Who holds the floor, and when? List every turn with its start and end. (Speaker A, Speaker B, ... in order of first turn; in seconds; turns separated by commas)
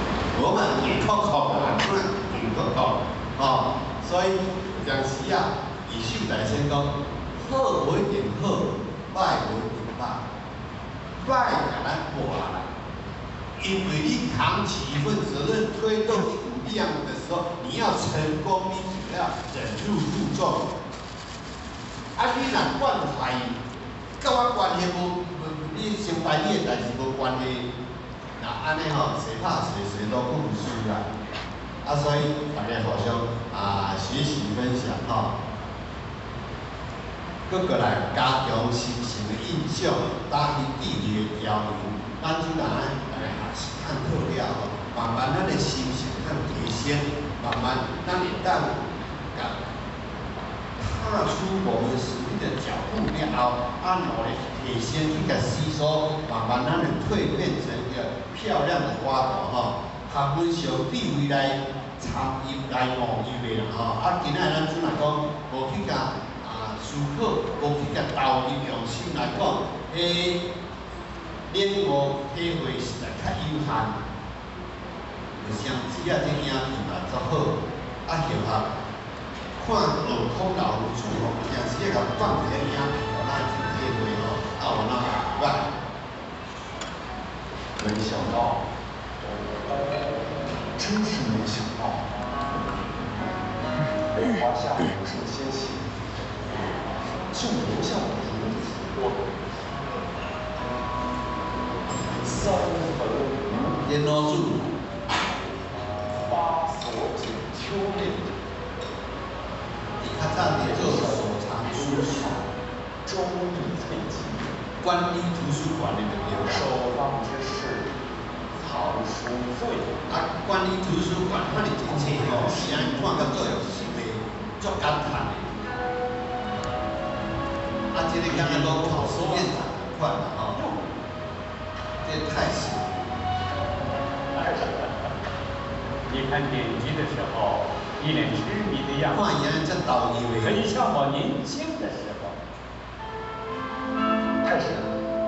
Speaker A: 0.3-10.3, Speaker A: 11.2-12.7, Speaker A: 13.6-20.7, Speaker A: 22.2-23.6, Speaker A: 24.2-27.7, Speaker A: 28.4-31.1, Speaker A: 31.8-35.4, Speaker A: 37.5-49.7, Speaker A: 50.8-70.5, Speaker A: 71.5-74.0, Speaker A: 75.4-78.7, Speaker A: 79.6-85.7, Speaker B: 87.8-88.7, Speaker B: 89.2-90.0, Speaker B: 90.8-92.3, Speaker B: 94.2-96.8, Speaker B: 97.3-99.8, Speaker B: 102.2-103.8, Speaker A: 103.6-104.7, Speaker B: 106.2-108.3, Speaker A: 110.0-112.4, Speaker B: 110.5-112.5, Speaker B: 113.0-114.6, Speaker A: 114.8-116.7, Speaker B: 116.3-118.0, Speaker B: 118.5-120.0, Speaker A: 120.1-125.5, Speaker B: 121.8-123.8, Speaker A: 127.9-130.6, Speaker C: 128.2-129.6, Speaker A: 132.0-133.1, Speaker C: 134.3-135.1, Speaker B: 134.4-134.7, Speaker C: 136.1-139.2, Speaker A: 139.1-140.6, Speaker C: 140.4-142.4, Speaker B: 144.4-144.9